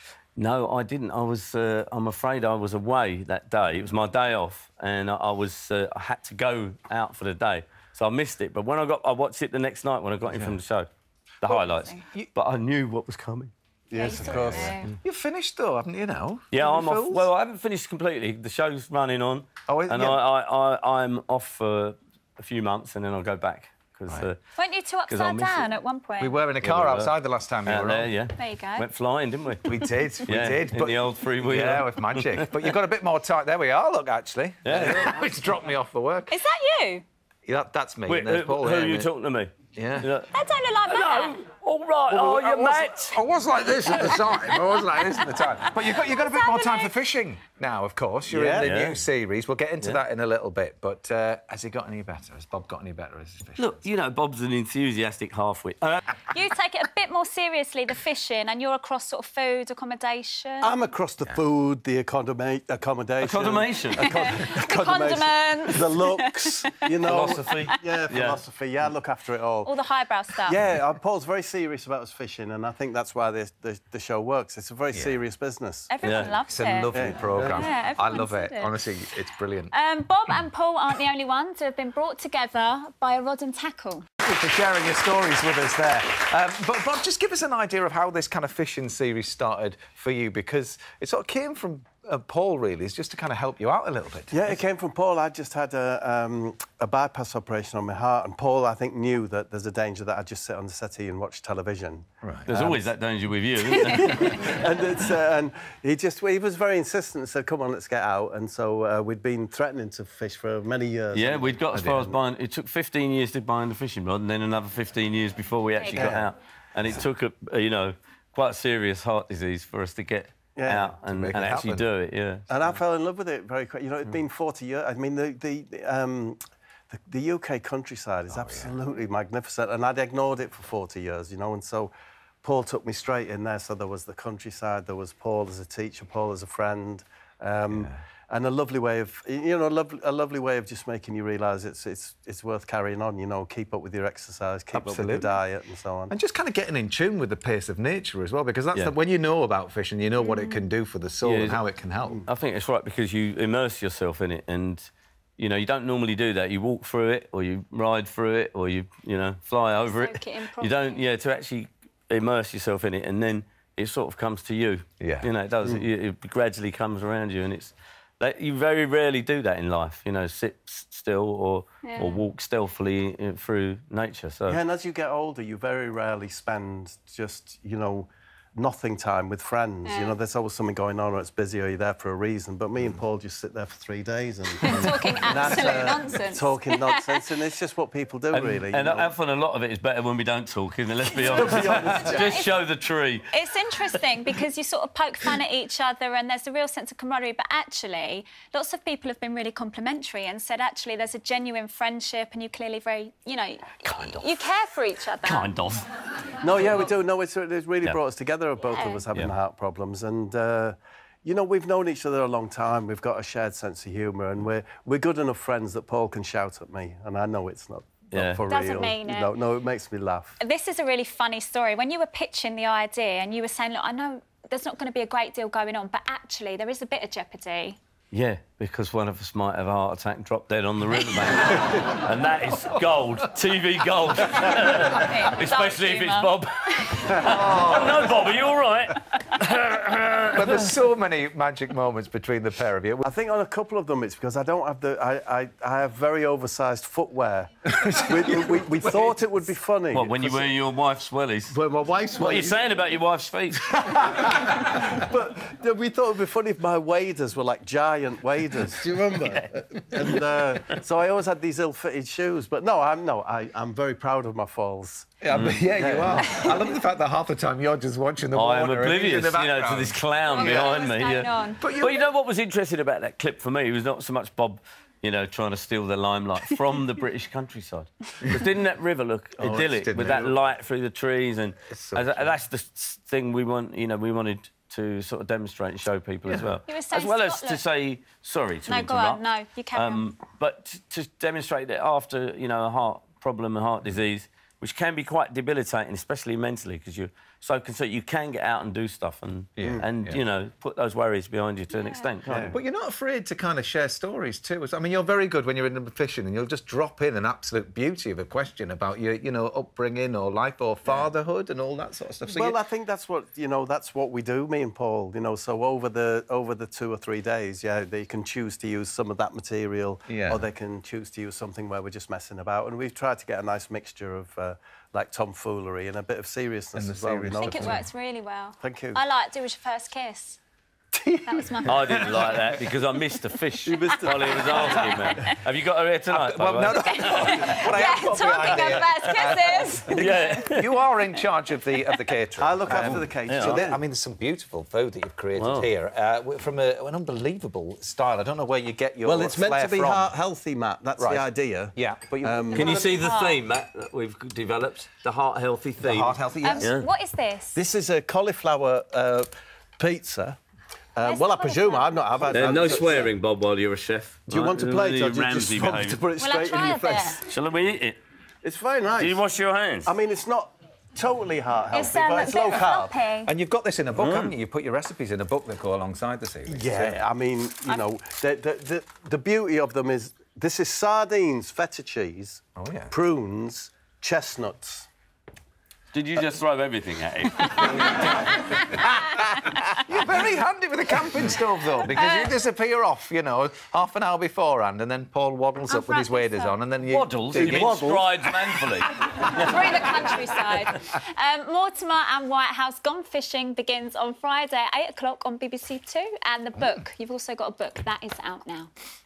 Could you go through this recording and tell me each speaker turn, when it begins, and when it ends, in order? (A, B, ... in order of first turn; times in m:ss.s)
0:00.4-0:10.9 A
0:10.3-0:10.6 B
0:11.4-0:13.5 A
0:11.4-0:12.0 C
0:13.9-0:14.8 D
0:13.9-0:14.9 C
0:14.1-0:17.3 B
0:16.5-0:24.4 A
0:19.7-0:20.2 B
0:24.6-0:26.4 C
0:25.1-0:25.7 A
0:26.2-0:28.1 B
0:26.6-0:27.1 A
0:27.7-0:29.7 A
0:28.4-0:28.9 C
0:29.6-0:36.4 B
0:30.3-0:32.7 A
0:34.6-0:35.1 A
0:36.3-0:37.0 C
0:37.5-0:39.1 B
0:38.1-0:40.3 A
0:39.8-0:40.1 B
0:40.3-0:41.4 C
0:40.8-0:43.2 A
0:42.1-0:53.8 B
0:43.9-0:46.9 C
0:48.3-0:48.7 D
0:48.6-0:49.0 A
0:53.6-0:56.0 A
0:56.3-1:00.7 C
1:00.6-1:09.7 D
1:03.2-1:04.2 A
1:04.1-1:06.7 C
1:07.1-1:08.4 A
1:07.3-1:07.8 C
1:09.6-1:10.6 C
1:10.4-1:15.9 D
1:15.9-1:16.9 C
1:16.0-1:16.4 A
1:16.5-1:19.7 B
1:16.9-1:17.6 D
1:17.5-1:18.8 C
1:19.7-1:24.1 C
1:24.2-1:34.6 B
1:34.3-1:42.8 D
1:42.2-1:42.5 B
1:42.5-1:44.5 A
1:43.7-1:52.2 D
1:51.1-2:02.5 A
1:55.8-1:56.2 C
1:55.9-1:56.3 D
2:00.6-2:01.0 D
2:01.1-2:01.9 B
2:02.5-2:06.4 D
2:06.9-2:11.9 D
2:08.3-2:08.7 B
2:12.4-2:26.2 D
2:17.7-2:18.0 B
2:24.7-2:25.4 B
2:26.1-2:32.3 B
2:30.2-2:30.6 C
2:31.2-2:31.6 A
2:32.3-2:54.6 A
2:39.8-2:41.0 C
2:45.0-2:45.3 B
2:51.8-2:52.2 C
2:54.5-3:09.1 D
2:59.9-3:00.1 C
3:04.6-3:07.2 C
3:08.3-3:13.4 A
3:11.2-3:12.3 D
3:11.3-3:12.6 C
3:13.3-3:25.5 C
3:23.9-3:24.4 A
3:25.2-3:25.9 A
3:26.4-3:40.4 D
3:28.7-3:29.0 C
3:38.1-3:38.4 A
3:38.5-3:39.3 C
3:40.4-3:47.8 C
3:48.1-4:00.8 A
3:54.8-3:57.0 C
3:57.2-3:58.1 B
4:00.3-4:03.1 B
4:03.0-4:10.5 D
4:07.7-4:09.2 B
4:09.9-4:11.6 A
4:11.5-4:12.6 D
4:12.2-4:13.9 A
4:13.7-4:25.1 D
4:25.2-4:30.9 B
4:25.3-4:25.7 A
4:25.7-4:26.6 D
4:28.3-5:02.6 A
4:30.2-4:32.0 C
4:31.6-4:32.0 B
4:39.4-4:40.5 B
4:41.7-4:42.4 B
4:46.3-4:46.6 B
4:46.7-4:47.6 C
4:48.7-4:50.1 C
4:59.6-5:00.2 B
5:01.7-5:02.1 C
5:02.3-5:12.6 B
5:12.3-5:27.9 D
5:20.1-5:20.5 B
5:26.8-5:27.9 B
5:27.4-5:30.4 C
5:28.6-5:29.0 D
5:31.0-5:31.7 D
5:31.2-5:32.3 C
5:31.7-5:37.4 A
5:31.7-5:32.5 B
5:33.6-5:35.1 D
5:34.0-5:35.4 C
5:36.1-5:50.1 B
5:36.8-5:40.6 C
5:39.0-5:39.3 A
5:39.9-5:40.8 A
5:42.4-5:43.8 D
5:42.7-5:43.6 A
5:45.4-5:45.7 A
5:49.0-5:52.9 D
5:51.0-5:52.5 B
5:52.5-5:53.4 C
5:52.5-5:56.9 A
5:55.8-5:56.7 B
5:56.4-5:57.6 C
5:57.5-6:00.4 D
6:01.0-6:03.1 D
6:01.0-6:03.0 C
6:02.3-6:06.0 A
6:04.3-6:07.2 D
6:06.2-6:07.2 C
6:07.3-6:08.0 A
6:08.4-6:09.2 D
6:09.0-6:09.9 A
6:09.8-6:13.0 D
6:11.7-6:13.3 C
6:13.2-6:17.0 B
6:14.0-6:14.3 A
6:16.5-6:24.9 D
6:22.6-6:22.9 B
6:25.9-6:28.1 A
6:27.6-6:28.9 C
6:29.6-6:39.9 B
6:31.9-6:32.3 C
6:35.7-6:36.6 C
6:36.9-6:39.6 A
6:37.3-6:37.8 D
6:39.1-6:48.7 C